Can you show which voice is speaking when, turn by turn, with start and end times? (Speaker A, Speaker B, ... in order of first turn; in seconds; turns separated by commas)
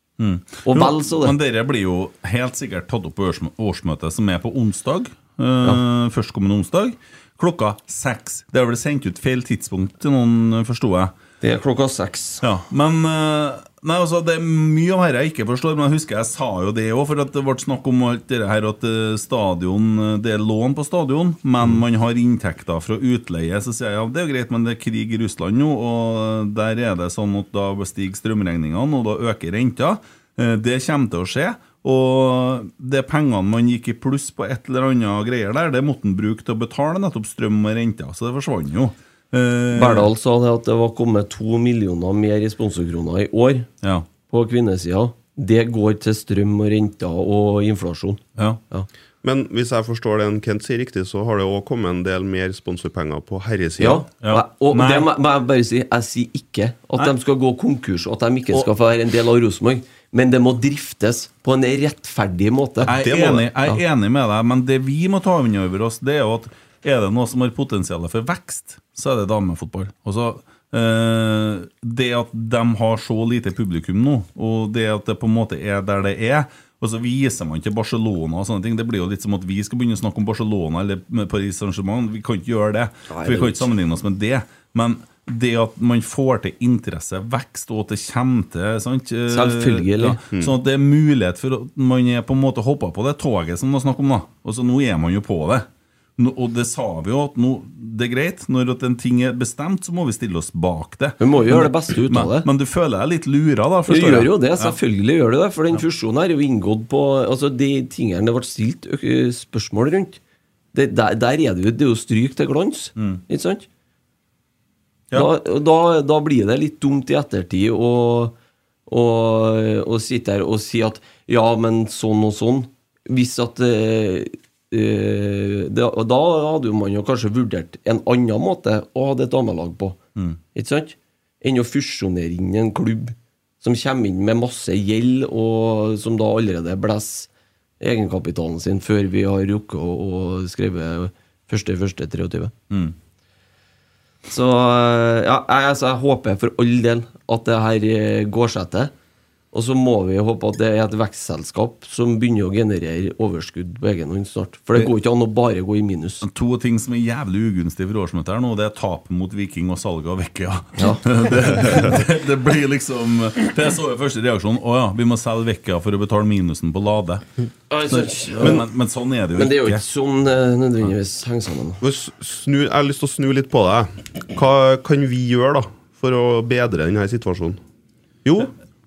Speaker A: 0.2-11.1, Speaker B: 0.6-1.4, Speaker B: 11.4-12.4, Speaker A: 12.4-40.1, Speaker B: 39.7-43.7, Speaker B: 44.3-48.9, Speaker C: 49.2-54.0, Speaker B: 53.8-62.9, Speaker A: 54.2-55.1, Speaker A: 62.8-104.8, Speaker C: 62.9-63.5, Speaker B: 83.1-83.7, Speaker B: 89.3-90.2, Speaker B: 101.2-102.5, Speaker B: 103.9-110.2, Speaker B: 110.7-113.7, Speaker B: 115.1-118.3, Speaker B: 118.9-130.0, Speaker B: 130.5-137.3, Speaker B: 137.8-142.5, Speaker B: 144.3-148.9, Speaker B: 149.5-156.2, Speaker A: 156.2-167.2, Speaker B: 160.8-161.8, Speaker B: 167.7-168.7, Speaker A: 167.9-169.8, Speaker B: 169.3-171.8, Speaker C: 171.8-177.6, Speaker C: 178.2-178.5